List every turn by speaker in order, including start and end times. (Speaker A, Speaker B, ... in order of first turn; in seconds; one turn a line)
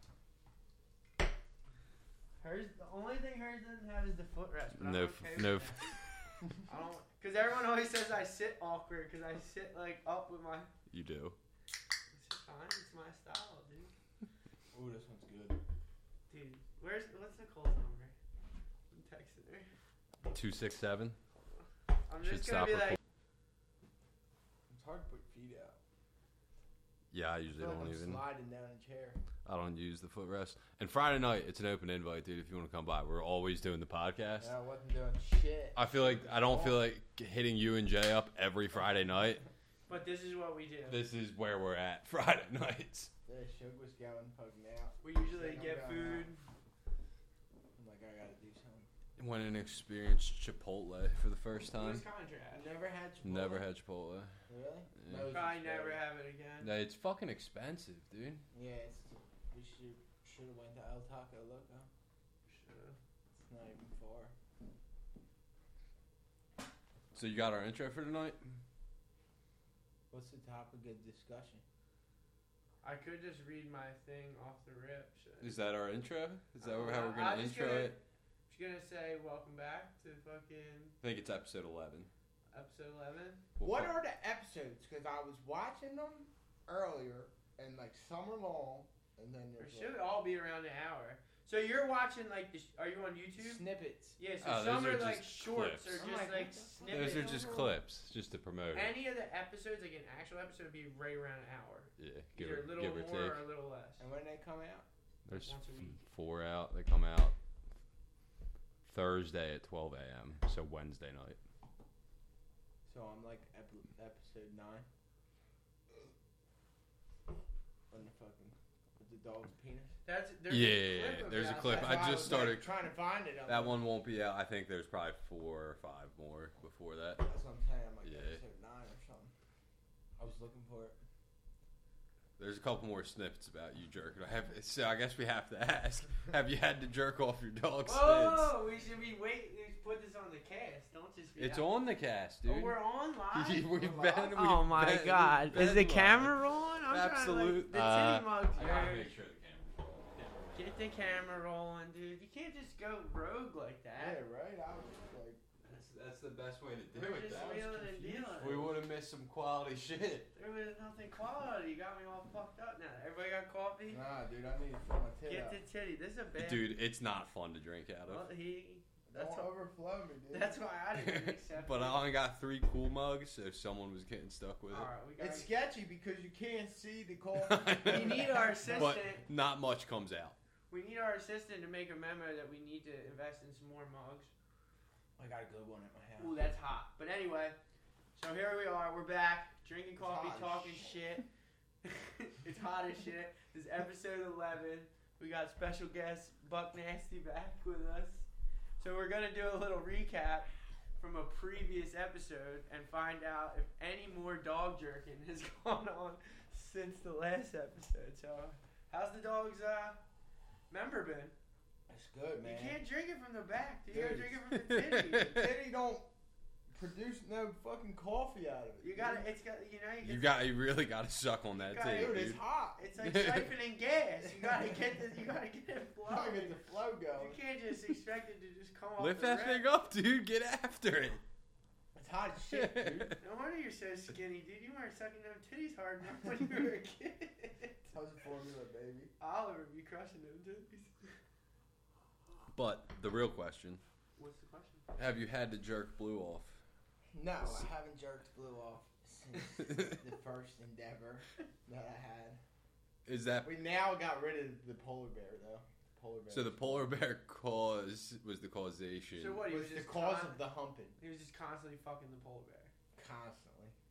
Speaker A: 2.4-5.9
Speaker B: 4.8-6.4
Speaker A: 6.6-10.7
Speaker B: 10.9-11.4
Speaker A: 12.1-13.9
Speaker C: 14.7-15.6
Speaker A: 16.3-18.1
Speaker A: 18.9-19.7
Speaker B: 20.3-21.2
Speaker A: 22.1-23.0
Speaker B: 22.2-23.0
Speaker C: 24.7-25.8
Speaker B: 27.1-28.2
Speaker C: 27.5-29.2
Speaker B: 29.4-34.5
Speaker C: 34.4-36.8
Speaker B: 35.8-39.4
Speaker A: 39.9-41.0
Speaker B: 40.9-43.1
Speaker C: 43.3-46.3
Speaker A: 45.0-46.4
Speaker C: 47.8-48.9
Speaker B: 49.2-52.0
Speaker A: 51.7-52.7
Speaker C: 52.5-53.6
Speaker B: 53.2-54.3
Speaker C: 54.5-56.0
Speaker B: 55.0-55.4
Speaker A: 55.3-56.7
Speaker B: 56.6-58.4
Speaker C: 58.5-61.9
Speaker A: 62.5-63.0
Speaker C: 63.3-64.3
Speaker B: 67.1-68.4
Speaker C: 70.1-71.6
Speaker A: 72.8-75.6
Speaker B: 75.4-78.0
Speaker A: 76.6-81.0
Speaker B: 81.0-82.1
Speaker A: 82.5-83.4
Speaker B: 83.6-83.9
Speaker C: 83.6-90.0
Speaker A: 89.6-93.6
Speaker C: 93.4-94.2
Speaker A: 94.2-97.6
Speaker B: 94.4-96.1
Speaker C: 95.9-97.8
Speaker B: 96.8-99.0
Speaker A: 98.7-104.0
Speaker B: 102.0-103.4
Speaker C: 104.0-104.8
Speaker B: 105.2-107.3
Speaker A: 105.3-106.0
Speaker B: 108.8-111.4
Speaker C: 112.9-114.9
Speaker C: 117.9-120.0
Speaker A: 120.0-122.5
Speaker B: 120.5-122.7
Speaker C: 121.5-123.8
Speaker B: 123.5-127.2
Speaker C: 127.2-129.3
Speaker B: 128.0-128.4
Speaker C: 130.2-131.0
Speaker B: 132.4-138.6
Speaker A: 137.8-141.7
Speaker B: 141.4-142.8
Speaker A: 142.4-149.2
Speaker B: 143.3-150.9
Speaker C: 143.7-144.3
Speaker A: 150.6-154.2
Speaker C: 153.9-155.4
Speaker B: 155.6-160.3
Speaker A: 156.9-158.7
Speaker C: 157.2-158.7
Speaker A: 160.3-164.0
Speaker C: 163.9-165.6
Speaker A: 165.3-166.7
Speaker B: 166.4-168.3
Speaker A: 168.1-169.5
Speaker C: 169.1-170.6
Speaker A: 170.3-172.0
Speaker B: 170.9-174.9
Speaker A: 174.7-175.5
Speaker C: 175.2-179.0
Speaker B: 177.4-180.3
Speaker A: 177.8-179.2
Speaker A: 180.7-184.3
Speaker C: 185.2-186.4
Speaker A: 186.2-187.6
Speaker A: 188.2-191.2
Speaker C: 190.0-190.9
Speaker A: 191.8-198.3
Speaker A: 198.8-210.0
Speaker A: 210.7-211.3
Speaker C: 211.9-212.8
Speaker A: 212.4-215.4
Speaker C: 213.9-214.3
Speaker B: 214.5-215.4
Speaker C: 215.2-216.1
Speaker C: 216.7-219.2
Speaker A: 218.8-220.5
Speaker B: 220.0-222.4
Speaker A: 221.5-226.6
Speaker C: 221.9-222.8
Speaker B: 223.0-223.5
Speaker C: 226.1-227.4
Speaker A: 227.1-229.7
Speaker B: 229.0-231.2
Speaker C: 231.9-233.1
Speaker B: 232.5-233.2
Speaker A: 233.2-237.9
Speaker C: 237.9-239.1
Speaker A: 239.2-241.1
Speaker B: 242.5-243.8
Speaker A: 244.2-244.8
Speaker B: 245.0-246.6
Speaker C: 247.1-252.4
Speaker B: 253.1-253.5
Speaker C: 253.4-256.9
Speaker B: 256.3-259.5
Speaker A: 259.2-260.4
Speaker C: 259.5-260.9
Speaker A: 261.0-262.7
Speaker C: 262.9-263.8